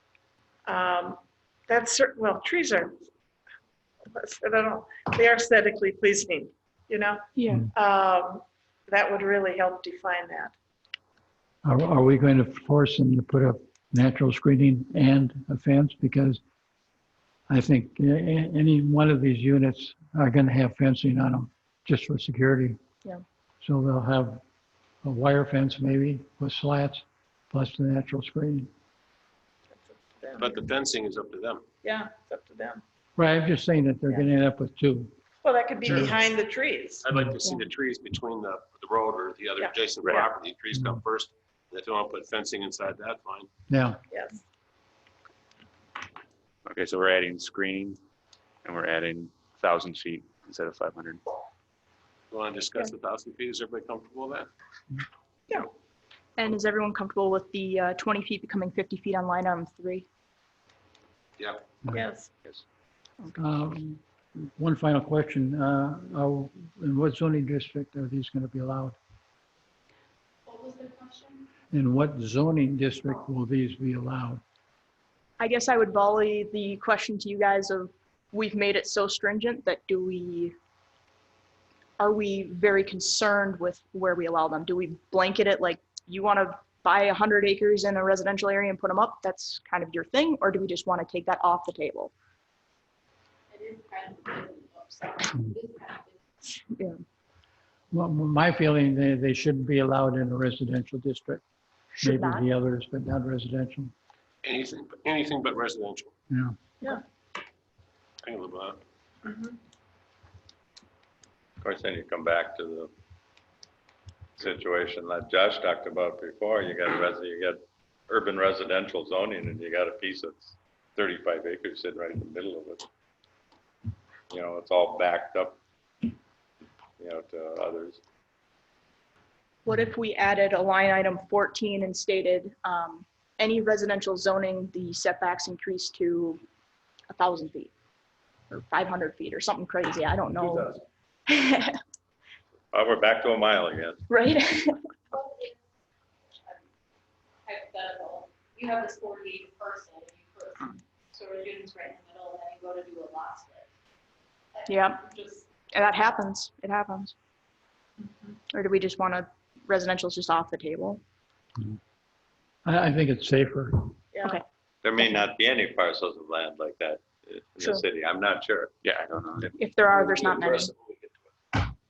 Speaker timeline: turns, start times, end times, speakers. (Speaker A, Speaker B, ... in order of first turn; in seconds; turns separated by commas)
Speaker A: 0.7-3.0, Speaker A: 4.1-10.5, Speaker B: 7.3-7.7, Speaker C: 11.6-16.4, Speaker C: 17.5-22.8, Speaker C: 23.6-24.4, Speaker C: 25.0-28.7, Speaker A: 29.7-30.6, Speaker D: 30.4-31.7, Speaker A: 31.8-32.8, Speaker C: 33.1-35.1, Speaker A: 35.4-37.0, Speaker D: 35.9-36.1, Speaker D: 37.0-43.5, Speaker C: 40.7-41.0, Speaker C: 43.7-44.0, Speaker A: 44.1-44.4, Speaker E: 46.6-48.0, Speaker E: 48.6-51.2, Speaker D: 52.3-54.5, Speaker B: 56.4-60.1, Speaker D: 61.4-61.7, Speaker A: 61.9-62.3, Speaker C: 63.3-69.0, Speaker F: 70.5-71.5, Speaker C: 71.7-74.4, Speaker B: 75.4-80.5, Speaker B: 82.0-92.1, Speaker F: 93.5-96.1, Speaker B: 96.7-97.0, Speaker C: 97.9-101.4, Speaker B: 101.9-102.5, Speaker C: 102.0-103.9, Speaker D: 104.4-106.1, Speaker C: 106.3-106.6, Speaker D: 108.2-108.8, Speaker A: 109.2-109.5, Speaker G: 111.6-112.9, Speaker G: 114.4-122.9, Speaker G: 124.3-125.6, Speaker G: 127.0-128.0, Speaker B: 129.6-136.4, Speaker B: 137.1-137.7, Speaker B: 138.5-140.8, Speaker B: 141.3-141.8, Speaker G: 142.7-144.0, Speaker B: 144.1-144.8, Speaker F: 145.1-145.5, Speaker F: 147.4-153.7, Speaker F: 154.5-155.5, Speaker B: 154.7-155.0, Speaker B: 155.7-157.1, Speaker B: 158.5-161.0, Speaker C: 162.6-163.9, Speaker A: 164.1-164.4, Speaker G: 164.8-168.7, Speaker E: 168.8-169.5, Speaker B: 169.5-170.7, Speaker D: 170.8-171.1